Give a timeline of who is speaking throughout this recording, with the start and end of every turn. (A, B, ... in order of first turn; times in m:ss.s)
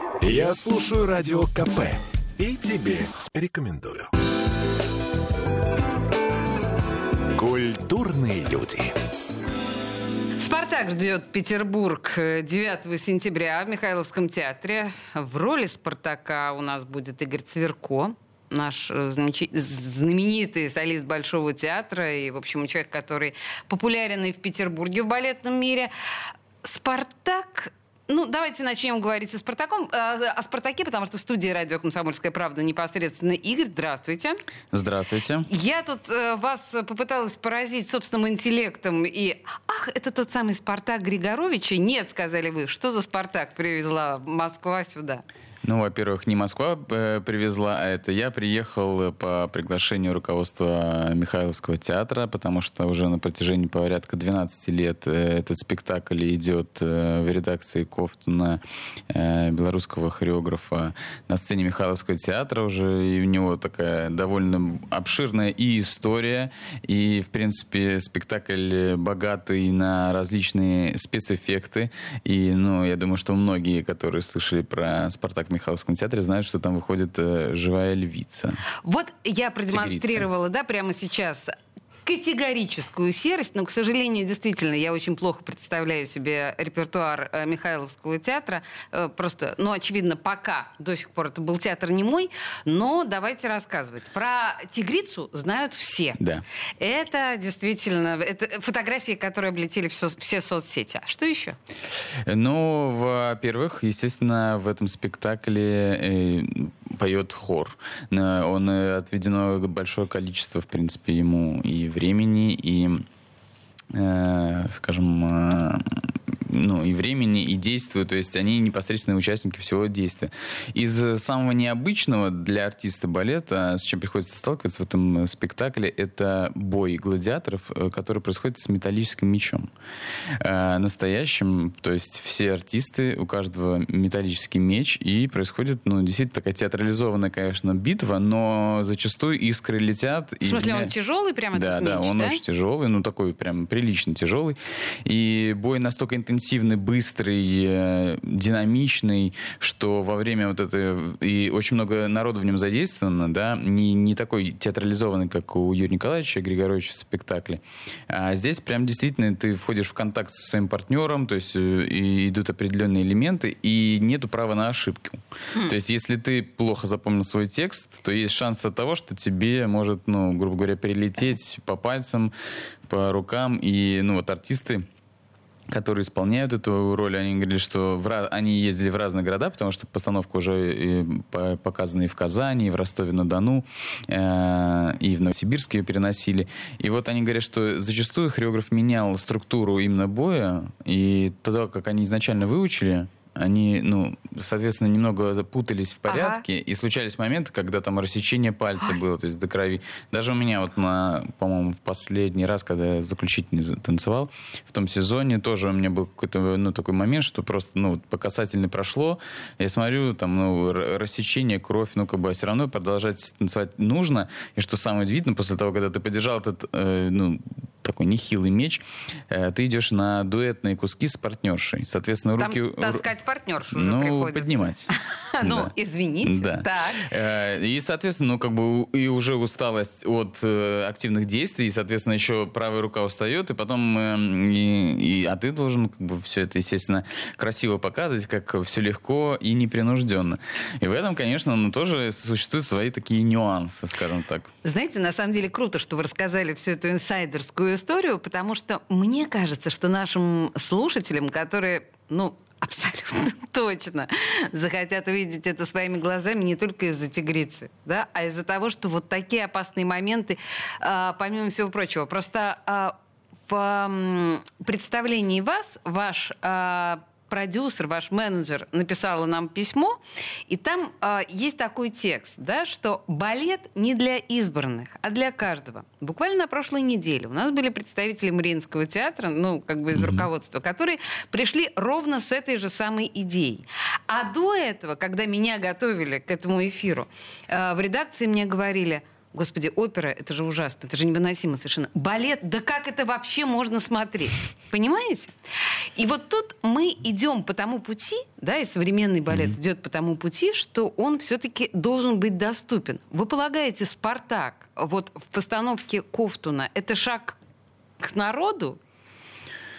0:00.2-0:04.1 A
0:07.4-0:08.9 A
0:10.4-0:25.9 B
0:26.6-0:34.4 B
0:34.7-0:35.5 C
0:35.5-0:45.2 B
0:45.6-1:18.6 C
1:18.8-1:21.5 B
1:19.7-1:20.3 C
1:22.1-1:36.2 B
1:36.2-1:36.4 C
1:36.8-1:41.6 B
1:42.3-1:53.0 C
1:53.9-2:09.7 C
2:10.4-2:20.9 C
2:20.4-2:22.4 B
2:21.5-2:52.3 C
2:52.9-2:54.9 C
2:55.7-3:43.1 C
3:16.1-3:16.4 B
3:42.4-3:47.1 B
3:43.7-4:04.5 C
4:04.6-4:23.0 B
4:23.5-4:30.0 B
4:30.5-4:55.3 B
4:39.9-4:40.3 C
4:56.0-5:07.4 B
5:08.0-5:08.8 B